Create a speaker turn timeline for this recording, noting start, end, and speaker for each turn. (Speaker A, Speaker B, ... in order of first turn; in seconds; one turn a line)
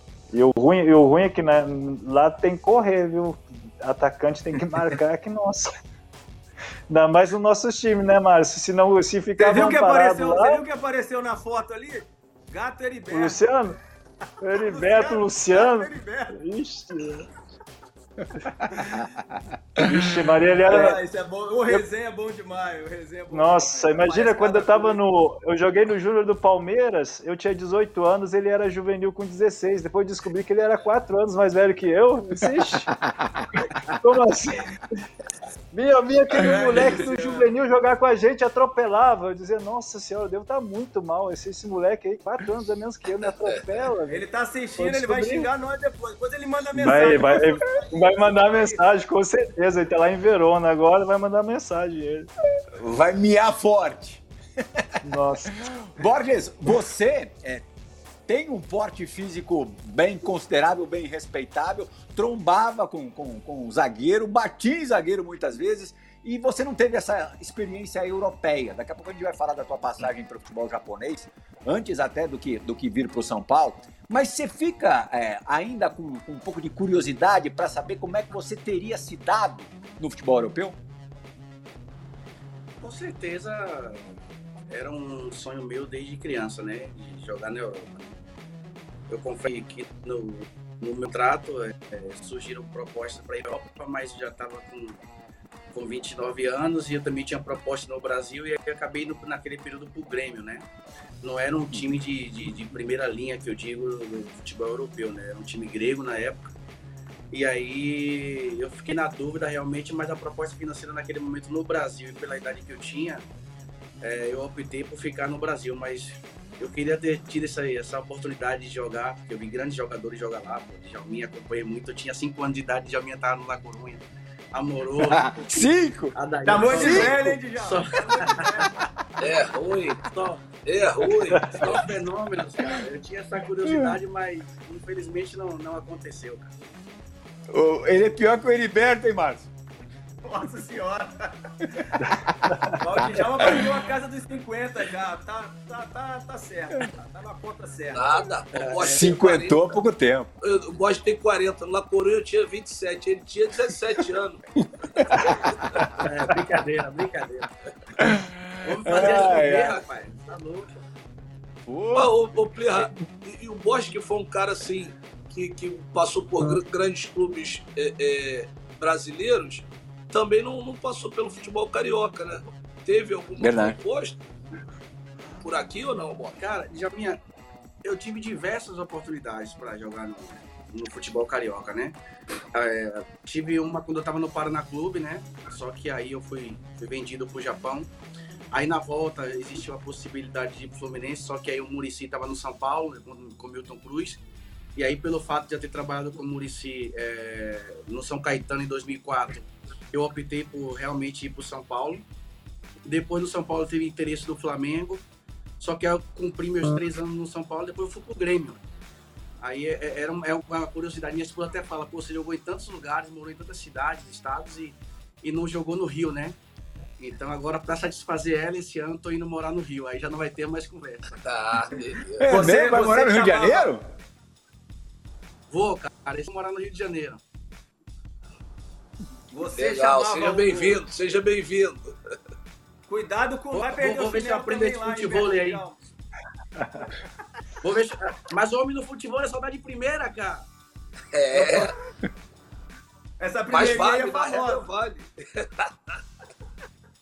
Speaker A: 0.3-5.7
Speaker A: 6.9-10.6
Speaker B: 9.4-13.4
Speaker A: 13.1-13.8
Speaker A: 14.4-17.3
Speaker B: 14.6-16.3
Speaker C: 18.8-19.4
Speaker A: 19.8-21.0
Speaker B: 20.7-25.0
Speaker A: 23.3-32.9
Speaker C: 33.0-33.5
Speaker A: 33.9-35.0
Speaker A: 35.7-44.2
Speaker B: 36.3-37.5
Speaker B: 44.1-48.8
Speaker A: 44.8-45.5
Speaker A: 46.7-52.3
Speaker C: 52.8-54.2
Speaker A: 55.0-55.6
Speaker C: 55.5-57.6
Speaker C: 58.3-80.8
Speaker D: 82.8-84.1
Speaker D: 84.7-88.0
Speaker D: 89.1-95.0
Speaker D: 95.7-100.7
Speaker D: 101.2-106.5
Speaker D: 107.3-113.2
Speaker D: 114.0-124.0
Speaker D: 124.5-125.4
Speaker C: 125.0-126.2
Speaker D: 126.2-128.6
Speaker B: 126.5-128.8
Speaker C: 126.7-127.3
Speaker E: 129.2-130.1
Speaker D: 130.1-130.5
Speaker E: 130.6-131.6
Speaker D: 131.5-136.5
Speaker C: 137.5-139.5
Speaker B: 140.2-141.3
Speaker C: 142.3-142.7
Speaker B: 142.8-148.4
Speaker E: 147.9-149.8
Speaker D: 148.5-149.1
Speaker C: 148.8-150.3
Speaker E: 150.4-154.5
Speaker C: 154.6-155.9
Speaker D: 156.0-157.5
Speaker C: 158.0-159.8
Speaker D: 158.6-160.7
Speaker C: 161.7-162.1
Speaker E: 161.9-174.2
Speaker C: 173.4-173.8
Speaker E: 175.4-176.4
Speaker D: 176.4-177.2
Speaker D: 177.8-181.9
Speaker D: 182.6-187.9
Speaker D: 188.5-194.2
Speaker D: 194.8-202.0
Speaker D: 202.8-205.0
Speaker D: 205.6-208.6
Speaker D: 209.4-216.3
Speaker D: 217.0-221.1
Speaker E: 221.2-222.3
Speaker C: 222.2-223.8
Speaker B: 222.3-223.8
Speaker D: 225.5-227.2
Speaker B: 229.3-230.8
Speaker E: 229.6-231.9
Speaker D: 230.2-230.7
Speaker B: 232.9-235.8
Speaker D: 233.5-235.6
Speaker A: 236.6-236.8
Speaker D: 237.6-240.5
Speaker E: 241.1-241.8
Speaker D: 241.3-241.7
Speaker B: 243.2-244.6
Speaker E: 243.5-245.7